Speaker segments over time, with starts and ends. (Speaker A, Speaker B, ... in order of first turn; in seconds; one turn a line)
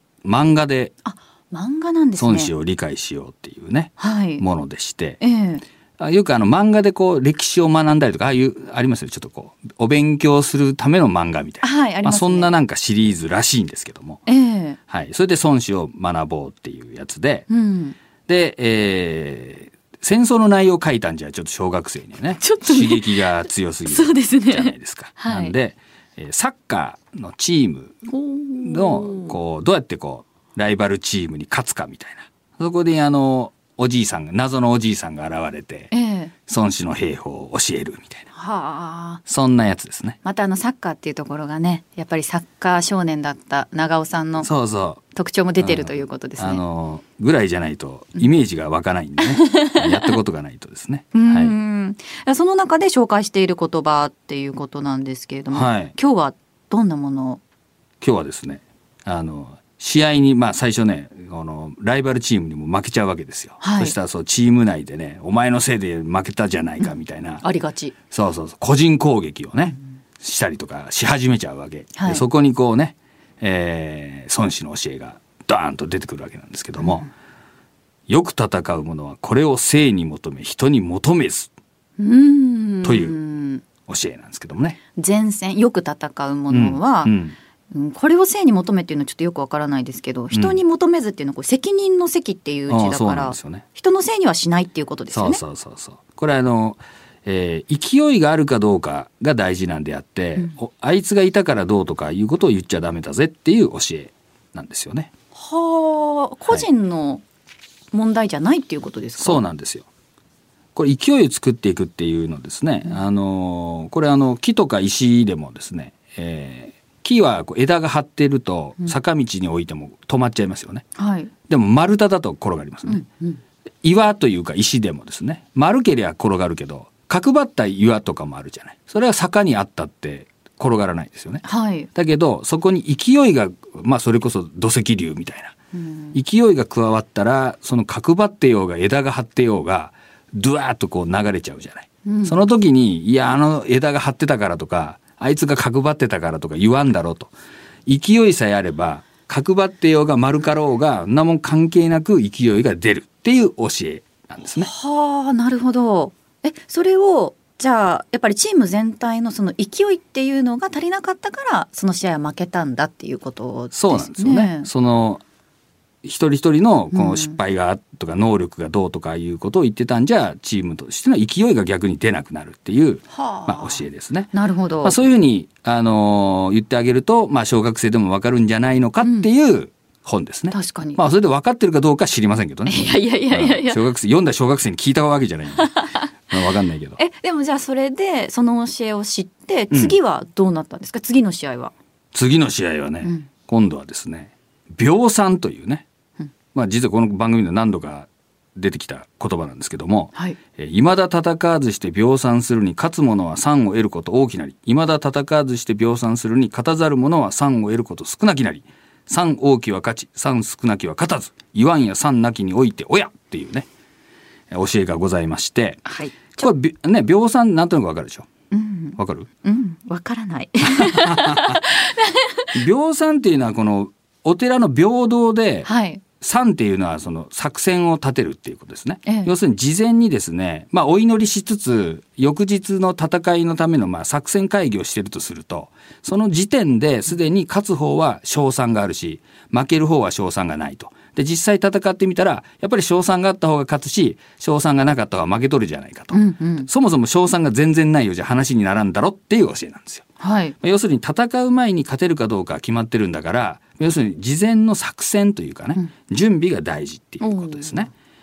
Speaker A: 0.2-0.9
Speaker B: 1.1-2.5
Speaker A: 2.2-5.2
Speaker B: 4.0-4.4
Speaker B: 5.2-5.6
Speaker A: 6.0-14.2
Speaker B: 11.6-12.5
Speaker B: 14.3-14.8
Speaker A: 14.9-17.5
Speaker B: 17.5-18.0
Speaker A: 18.3-28.1
Speaker B: 22.4-23.3
Speaker B: 23.9-25.5
Speaker B: 28.1-29.4
Speaker A: 28.6-35.9
Speaker B: 35.9-36.3
Speaker A: 36.5-38.3
Speaker B: 38.3-39.2
Speaker A: 39.3-40.2
Speaker B: 40.2-44.5
Speaker A: 44.4-45.0
Speaker B: 45.1-46.6
Speaker A: 45.6-51.5
Speaker B: 49.2-50.1
Speaker B: 51.1-57.4
Speaker A: 55.5-56.0
Speaker A: 58.0-67.4
Speaker B: 63.6-64.0
Speaker B: 67.4-68.0
Speaker A: 68.1-77.1
Speaker B: 72.0-72.2
Speaker B: 76.8-77.1
Speaker A: 78.1-81.5
Speaker B: 82.0-83.6
Speaker A: 82.8-83.2
Speaker A: 83.9-84.8
Speaker B: 85.0-87.1
Speaker A: 86.5-87.4
Speaker B: 87.7-95.4
Speaker A: 90.3-90.6
Speaker A: 92.7-93.7
Speaker A: 95.1-105.1
Speaker B: 105.3-107.2
Speaker B: 107.9-109.4
Speaker A: 109.2-109.9
Speaker A: 110.8-120.8
Speaker B: 121.0-121.3
Speaker A: 121.5-123.1
Speaker B: 122.9-123.4
Speaker A: 123.8-135.6
Speaker B: 131.4-131.9
Speaker B: 135.7-136.2
Speaker A: 136.1-147.3
Speaker B: 142.1-142.4
Speaker A: 147.9-154.7
Speaker B: 154.6-164.7
Speaker A: 163.7-165.2
Speaker A: 166.0-174.3
Speaker B: 166.9-167.4
Speaker B: 173.1-175.0
Speaker A: 174.8-187.0
Speaker B: 179.0-179.3
Speaker B: 180.5-181.0
Speaker B: 182.7-183.8
Speaker B: 185.7-186.0
Speaker B: 187.0-191.7
Speaker A: 189.7-190.0
Speaker A: 192.1-195.9
Speaker B: 193.0-193.3
Speaker A: 196.5-213.7
Speaker A: 214.5-218.3
Speaker B: 215.9-216.5
Speaker B: 218.5-222.6
Speaker A: 219.0-219.3
Speaker A: 220.7-221.6
Speaker A: 222.5-250.1
Speaker B: 225.7-226.0
Speaker B: 229.1-229.3
Speaker B: 246.1-246.7
Speaker B: 250.2-250.6
Speaker A: 250.6-257.9
Speaker B: 257.2-257.9